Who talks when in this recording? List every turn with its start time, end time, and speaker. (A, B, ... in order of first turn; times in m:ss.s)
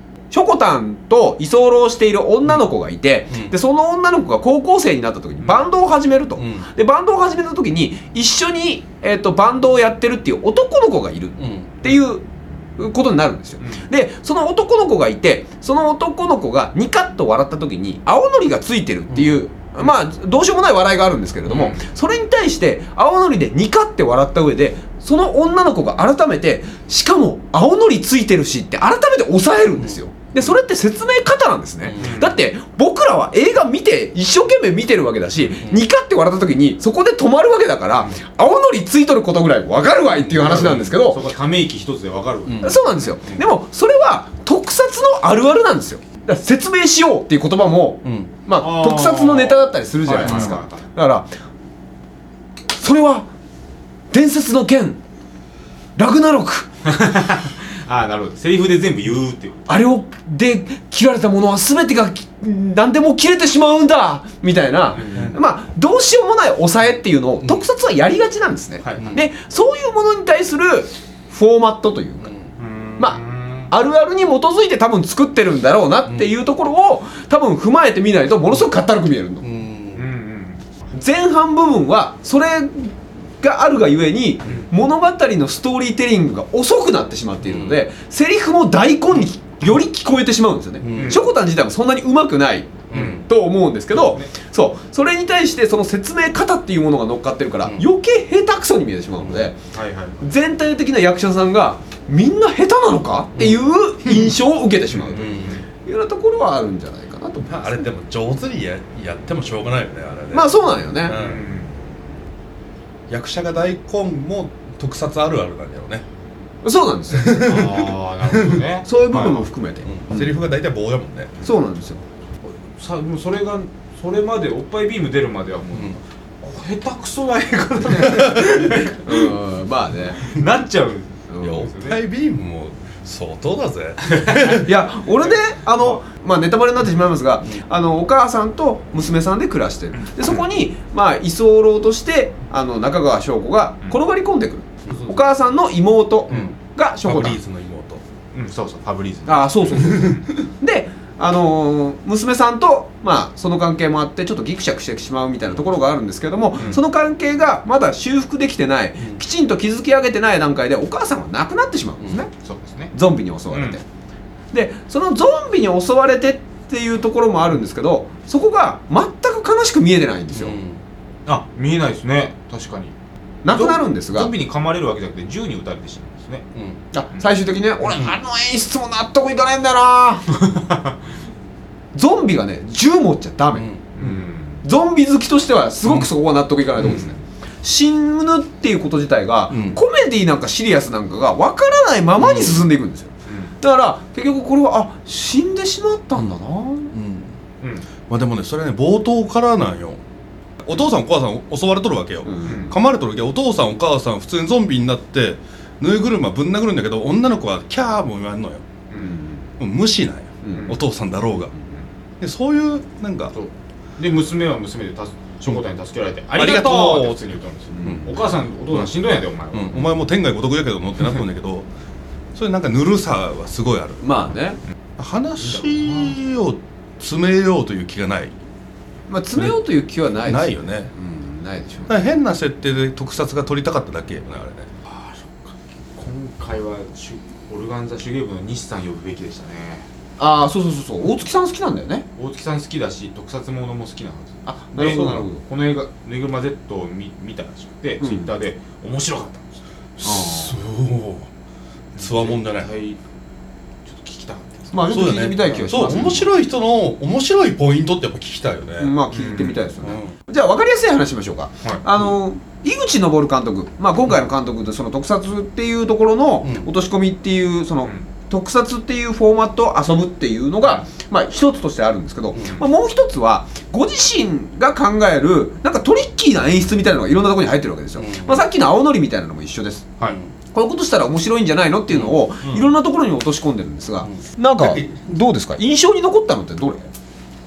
0:00.3-0:12.2 A
0:06.4-0:06.7 B
0:11.4-0:11.8 B
0:12.8-0:41.2 A
0:19.1-0:19.4 B
0:21.5-0:21.9 C
0:31.8-0:32.1 B
0:32.0-0:32.4 C
0:40.2-0:40.9 B
0:40.4-0:42.8 C
0:42.5-0:43.4 B
0:42.6-0:51.3 A
0:48.0-0:48.3 B
0:48.6-0:50.8 C
0:52.8-0:53.3 A
0:54.1-0:55.0 A
0:56.0-0:56.7 A
0:56.8-0:59.7 C
0:59.7-1:12.3 A
1:04.9-1:05.4 C
1:05.0-1:05.4 B
1:08.8-1:09.2 C
1:12.6-1:13.7 C
1:13.7-1:19.4 A
1:19.4-1:20.1 B
1:19.9-1:20.6 C
1:20.9-1:39.6 A
1:27.5-1:27.8 B
1:30.8-1:31.2 B
1:30.9-1:31.2 C
1:32.9-1:33.3 B
1:32.9-1:33.2 C
1:34.0-1:34.3 C
1:39.2-1:39.5 B
1:39.7-1:40.2 C
1:40.2-1:47.9 A
1:43.4-1:44.3 B
1:45.0-1:45.6 B
1:45.2-1:45.6 C
1:47.5-1:51.5 B
1:50.3-1:51.2 A
1:51.1-1:51.8 C
1:53.1-1:56.0 B
1:56.6-1:57.5 A
1:57.1-1:58.6 B
1:57.4-1:59.4 C
1:58.8-2:00.4 A
1:59.9-2:01.3 B
2:01.4-2:02.0 A
2:02.4-2:09.3 C
2:05.7-2:06.0 B
2:08.0-2:08.7 B
2:08.8-2:10.2 A
2:10.2-2:12.0 C
2:11.3-2:11.7 A
2:11.4-2:14.7 B
2:14.1-2:14.6 C
2:14.5-2:27.4 A
2:15.2-2:16.0 C
2:20.0-2:20.4 C
2:24.9-2:25.2 B
2:26.3-2:28.0 B
2:28.3-2:30.3 C
2:29.3-2:42.3 A
2:42.3-2:42.9 C
2:42.9-2:43.8 A
2:43.5-2:43.8 C
2:44.5-2:50.6 A
2:50.3-2:50.8 B
2:51.3-2:52.9 C
2:53.4-2:54.3 A
2:53.5-2:56.5 C
2:56.9-3:00.3 A
2:57.9-2:58.2 B
3:00.3-3:01.0 C
3:01.9-3:03.7 A
3:03.6-3:03.8 B
3:04.0-3:04.6 C
3:04.6-3:16.9 A
3:06.8-3:07.1 C
3:09.5-3:09.8 B
3:12.2-3:12.6 B
3:13.3-3:13.6 C
3:16.9-3:17.4 B
3:17.6-3:17.9 C
3:18.1-3:20.0 B
3:20.6-3:28.6 B
3:22.2-3:22.6 A
3:22.5-3:22.8 C
3:29.0-3:29.5 A
3:29.6-3:31.5 B
3:30.4-3:30.7 A
3:32.2-3:33.3 B
3:33.3-3:39.9 C
3:36.3-3:37.2 B
3:37.8-3:38.1 A
3:37.8-3:38.1 B
3:39.5-3:41.7 B
3:42.3-3:44.0 B
3:44.0-3:44.6 A
3:45.0-3:48.3 B
3:45.4-3:46.2 C
3:49.1-3:52.0 A
3:50.2-3:50.9 B
3:51.9-3:54.7 B
3:54.8-3:59.9 C
4:00.2-4:02.1 A
4:02.2-4:09.6 C
4:04.5-4:05.4 A
4:08.0-4:08.3 A
4:10.0-4:11.3 B
4:10.0-4:10.6 A
4:12.0-4:13.0 C
4:12.0-4:12.7 B
4:13.8-4:14.8 C
4:14.7-4:16.3 A
4:14.9-4:19.0 B
4:15.4-4:16.2 C
4:18.8-4:39.9 A
4:19.1-4:19.6 C
4:19.8-4:20.2 B
4:26.4-4:26.7 B
4:32.4-4:32.6 C
4:38.0-4:38.4 B
4:40.1-4:40.3 B
4:40.5-4:46.9 A
4:41.9-4:42.7 B
4:44.1-4:45.1 B